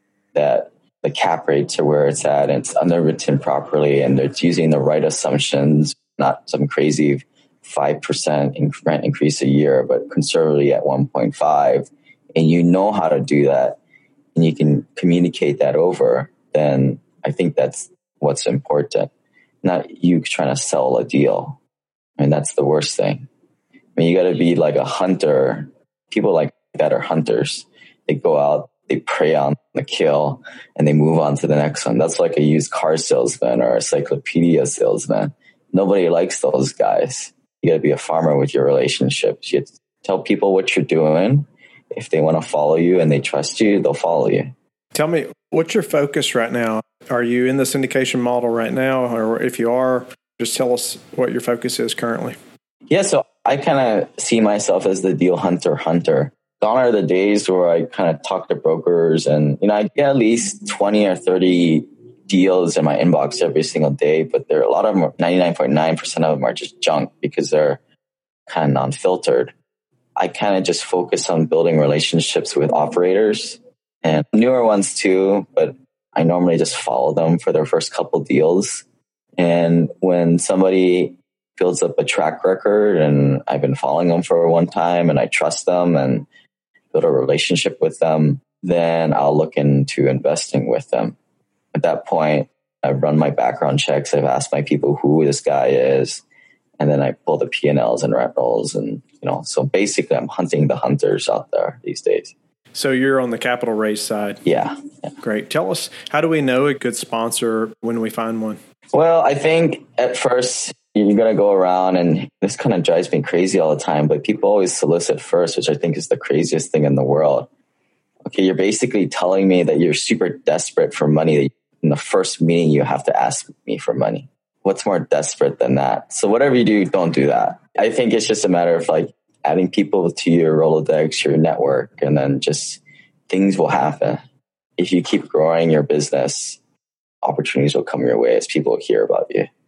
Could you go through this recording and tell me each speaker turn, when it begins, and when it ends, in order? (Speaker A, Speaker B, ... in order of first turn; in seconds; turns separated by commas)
Speaker A: 0.3-13.8, Speaker A: 14.3-19.1, Speaker A: 19.6-21.6, Speaker A: 22.2-23.3, Speaker A: 24.0-44.5, Speaker B: 44.9-52.4, Speaker A: 52.9-67.8, Speaker A: 68.5-69.5, Speaker A: 70.2-78.8, Speaker A: 79.4-86.3, Speaker A: 86.9-91.2, Speaker A: 91.7-96.2, Speaker A: 96.8-102.3, Speaker B: 102.7-104.4, Speaker A: 104.5-104.8, Speaker B: 105.2-108.6, Speaker A: 108.9-117.5, Speaker A: 118.2-134.2, Speaker A: 134.8-136.6, Speaker A: 137.2-139.5